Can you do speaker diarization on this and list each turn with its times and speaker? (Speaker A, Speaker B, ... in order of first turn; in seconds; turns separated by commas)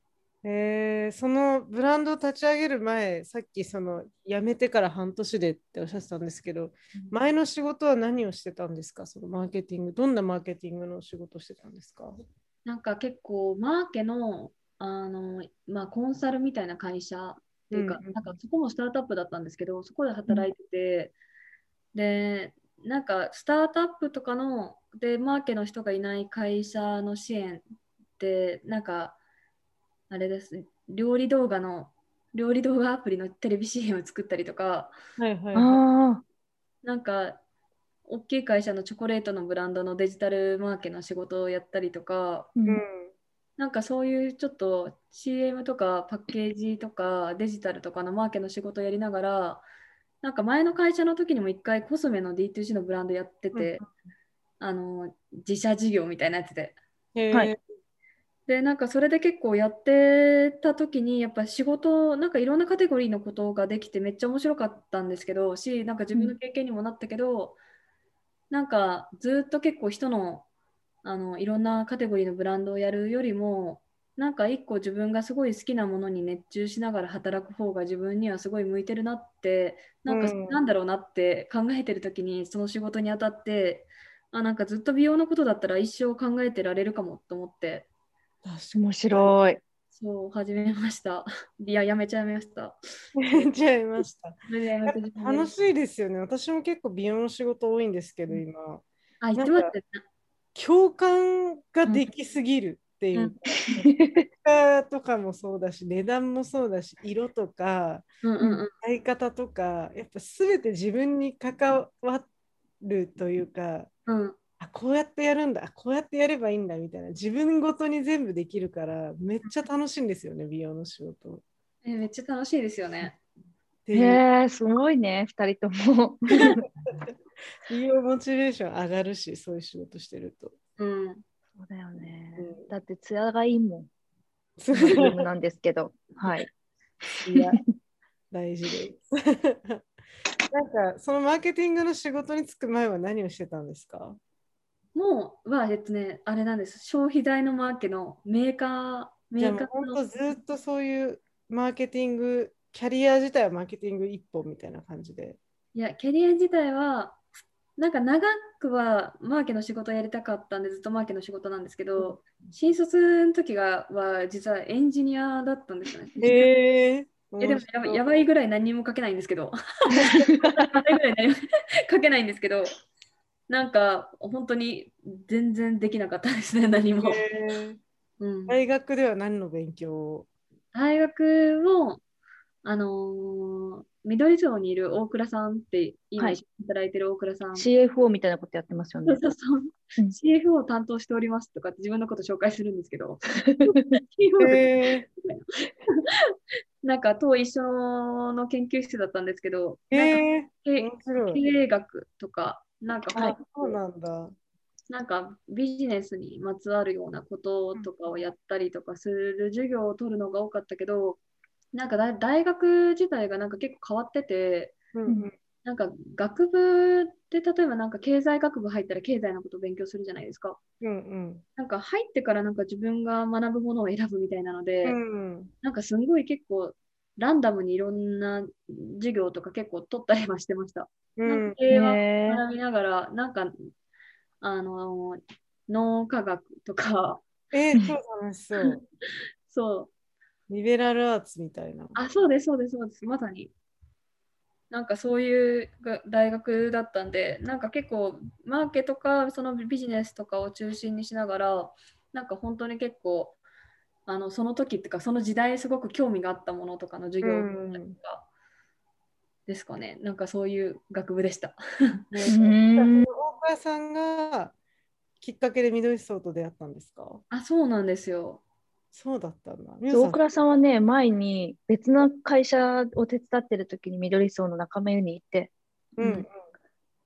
Speaker A: 0.4-12.2, Speaker B: 12.6-21.1, Speaker A: 17.7-18.3, Speaker B: 21.9-27.6, Speaker B: 28.2-29.2, Speaker B: 30.1-35.0, Speaker A: 35.2-35.8, Speaker C: 35.5-36.2, Speaker B: 36.8-37.4, Speaker B: 38.0-42.5, Speaker C: 42.5-42.8, Speaker A: 42.7-43.1, Speaker B: 43.6-49.6, Speaker B: 50.2-53.8, Speaker A: 53.5-53.8, Speaker B: 54.6-56.8, Speaker A: 57.1-57.6, Speaker B: 58.5-67.6, Speaker B: 68.5-70.5, Speaker B: 71.0-87.9, Speaker A: 80.1-80.6, Speaker A: 88.4-89.3, Speaker C: 88.7-89.6, Speaker B: 89.9-92.8, Speaker A: 93.2-98.8, Speaker B: 94.5-95.5, Speaker B: 99.2-100.0, Speaker A: 99.3-99.7, Speaker A: 100.5-108.1, Speaker C: 103.8-104.2, Speaker B: 108.2-108.7, Speaker A: 108.8-112.3, Speaker A: 112.8-113.9, Speaker B: 114.1-114.4, Speaker A: 114.6-121.4, Speaker B: 121.8-123.2, Speaker A: 123.8-124.2, Speaker C: 123.9-126.6, Speaker A: 127.7-130.5, Speaker B: 130.8-131.2, Speaker C: 131.6-133.9, Speaker A: 132.4-132.7, Speaker A: 134.6-135.2, Speaker C: 134.7-136.5, Speaker A: 137.2-137.6, Speaker A: 138.3-139.8, Speaker A: 140.5-144.2, Speaker B: 144.9-150.0, Speaker A: 149.4-155.4, Speaker B: 155.7-157.2, Speaker B: 157.8-166.3, Speaker A: 166.2-168.0, Speaker B: 167.4-172.7, Speaker B: 173.5-177.2, Speaker A: 177.0-177.8, Speaker B: 178.2-178.6, Speaker A: 178.5-180.3, Speaker B: 180.7-182.0, Speaker B: 182.6-187.7, Speaker C: 187.6-189.2, Speaker B: 189.1-196.0, Speaker C: 193.4-193.9, Speaker A: 194.4-195.1, Speaker B: 196.8-203.8, Speaker A: 199.9-201.4, Speaker A: 203.1-204.3, Speaker B: 204.9-211.2, Speaker B: 211.7-214.8, Speaker A: 214.9-215.3, Speaker B: 215.6-220.6, Speaker A: 220.8-221.4, Speaker B: 221.6-225.0, Speaker A: 224.8-225.5, Speaker B: 225.6-233.5, Speaker A: 231.2-231.6, Speaker C: 231.7-232.4, Speaker B: 234.4-237.3, Speaker A: 237.5-238.8, Speaker B: 239.5-239.9, Speaker A: 240.5-242.0, Speaker B: 241.9-243.5, Speaker B: 244.7-253.4, Speaker B: 254.1-258.2, Speaker A: 257.2-258.0, Speaker B: 259.5-261.6, Speaker A: 262.1-264.5, Speaker C: 262.3-263.1, Speaker A: 265.2-267.2, Speaker B: 267.3-268.4, Speaker A: 268.9-270.2, Speaker C: 269.9-276.2, Speaker A: 276.0-276.4